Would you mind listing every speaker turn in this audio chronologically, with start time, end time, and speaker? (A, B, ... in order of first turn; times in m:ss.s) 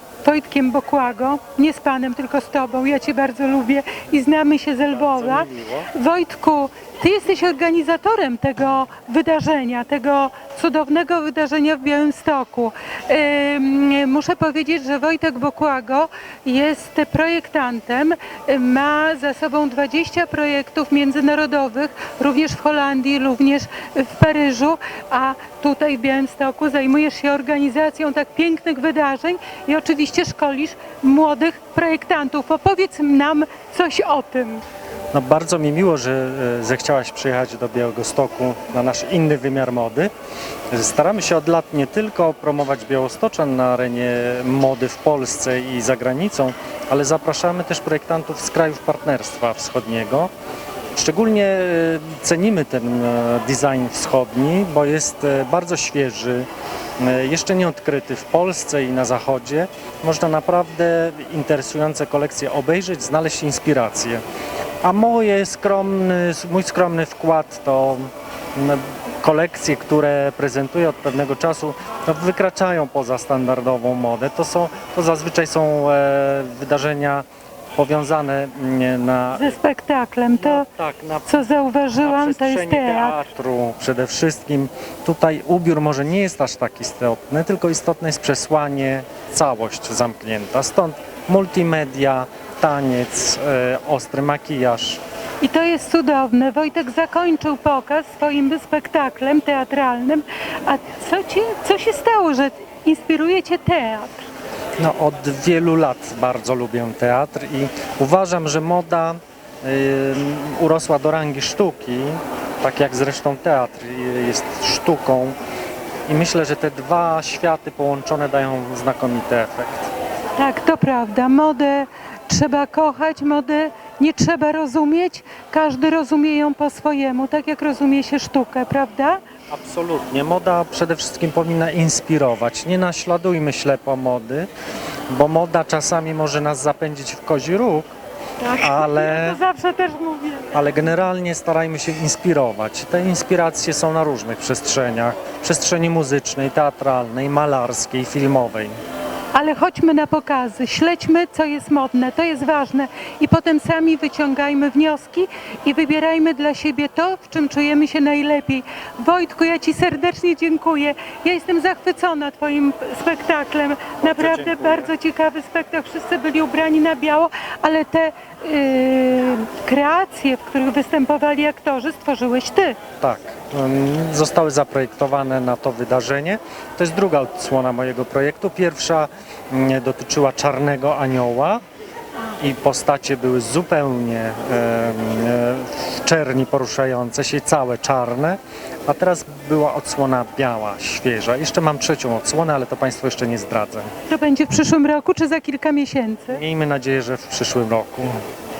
0:00.2-0:34.6 A
0:04.9-0:05.9 B
0:35.1-0:40.1 B
0:40.7-0:50.3 B
0:50.9-0:56.5 B
0:57.0-1:04.2 B
1:04.8-1:19.5 B
1:19.3-1:20.7 A
1:20.3-1:21.5 B
1:21.3-1:23.2 A
1:22.0-1:35.0 B
1:35.4-1:44.2 A
1:44.8-1:55.4 B
1:56.1-1:59.9 B
2:00.4-2:09.2 A
2:09.5-2:14.5 B
2:15.1-2:17.9 B
2:18.4-2:20.6 A
2:18.6-2:19.4 B
2:20.5-2:28.7 B
2:29.3-2:52.8 A
2:44.0-2:44.9 B
2:53.0-3:01.6 B
3:02.4-3:13.9 B
3:14.1-3:16.4 A
3:16.3-3:18.2 B